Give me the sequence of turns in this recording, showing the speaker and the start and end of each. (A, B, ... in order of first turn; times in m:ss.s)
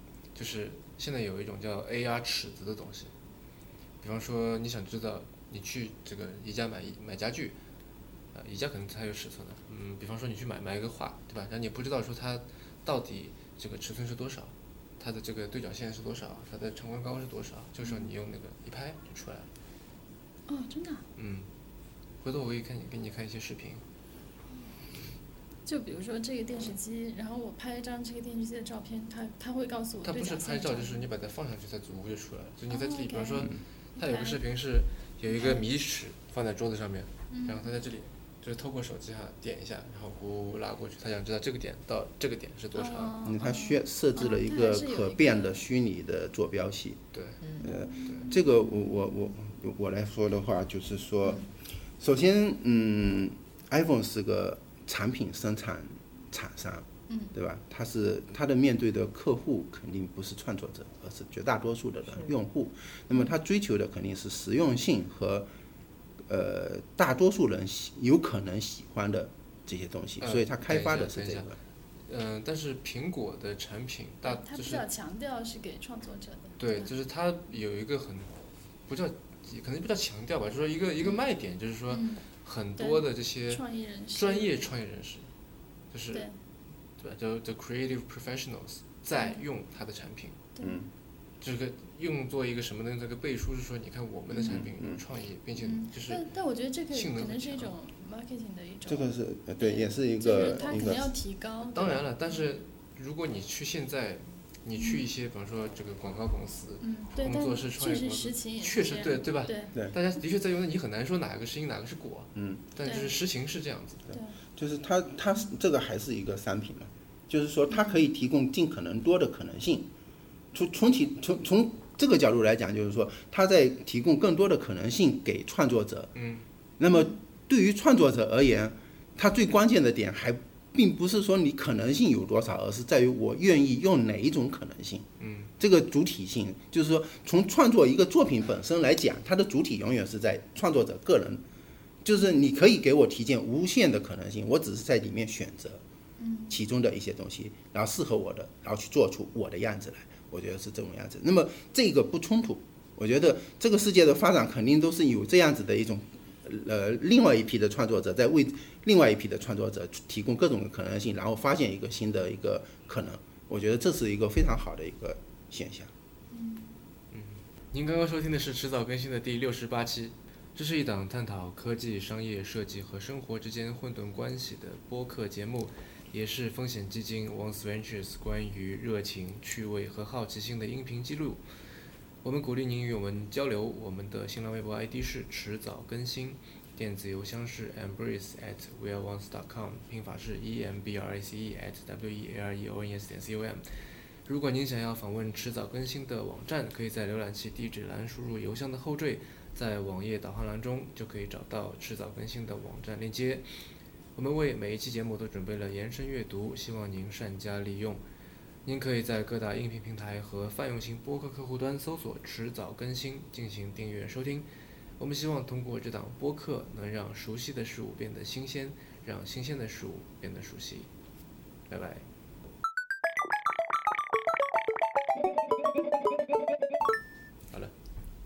0:00.3-0:03.1 A
0:04.0-0:07.6 A
0:08.3-0:19.5 A
0:20.5-0:21.0 B
0:21.2-0:21.5 A
0:22.2-0:23.8 A
0:25.6-0:31.1 B
0:30.0-0:43.1 A
0:32.7-0:34.4 B
0:35.3-0:35.6 B
0:37.3-0:37.7 B
0:42.7-0:45.6 B
0:43.2-0:47.0 C
0:47.1-0:47.4 A
0:47.6-0:51.4 C
0:47.6-0:48.7 B
0:48.0-0:48.3 A
0:52.0-1:05.5 C
0:57.1-0:57.3 B
1:06.3-1:11.6 C
1:10.2-1:14.8 A
1:14.2-1:16.9 B
1:16.6-1:18.3 A
1:18.9-1:25.3 A
1:21.9-1:22.2 B
1:22.8-1:24.7 B
1:25.9-1:26.3 A
1:27.0-1:30.4 A
1:29.1-1:29.4 B
1:30.6-1:30.9 C
1:31.4-1:36.3 A
1:34.3-1:35.0 C
1:35.6-1:42.4 B
1:36.9-1:37.7 A
1:38.9-1:41.1 C
1:41.6-1:54.1 A
1:44.8-1:45.0 B
1:46.8-1:49.7 B
1:52.4-1:52.6 C
1:52.8-1:53.1 B
1:54.1-1:54.4 B
1:54.6-1:59.9 C
1:57.7-1:58.0 B
2:00.5-2:06.1 C
2:06.1-2:06.4 A
2:06.8-2:15.1 C
2:06.9-2:07.2 B
2:15.2-2:15.5 A
2:15.6-2:21.4 C
2:22.0-2:25.8 C
2:26.2-2:26.6 B
2:26.5-2:45.9 C
2:46.3-2:46.7 B
2:47.1-3:01.4 A
3:02.2-3:13.6 A
3:14.3-3:23.4 A
3:24.1-3:28.0 A
3:28.6-3:34.4 A
3:35.0-3:40.9 A
3:41.7-3:42.0 A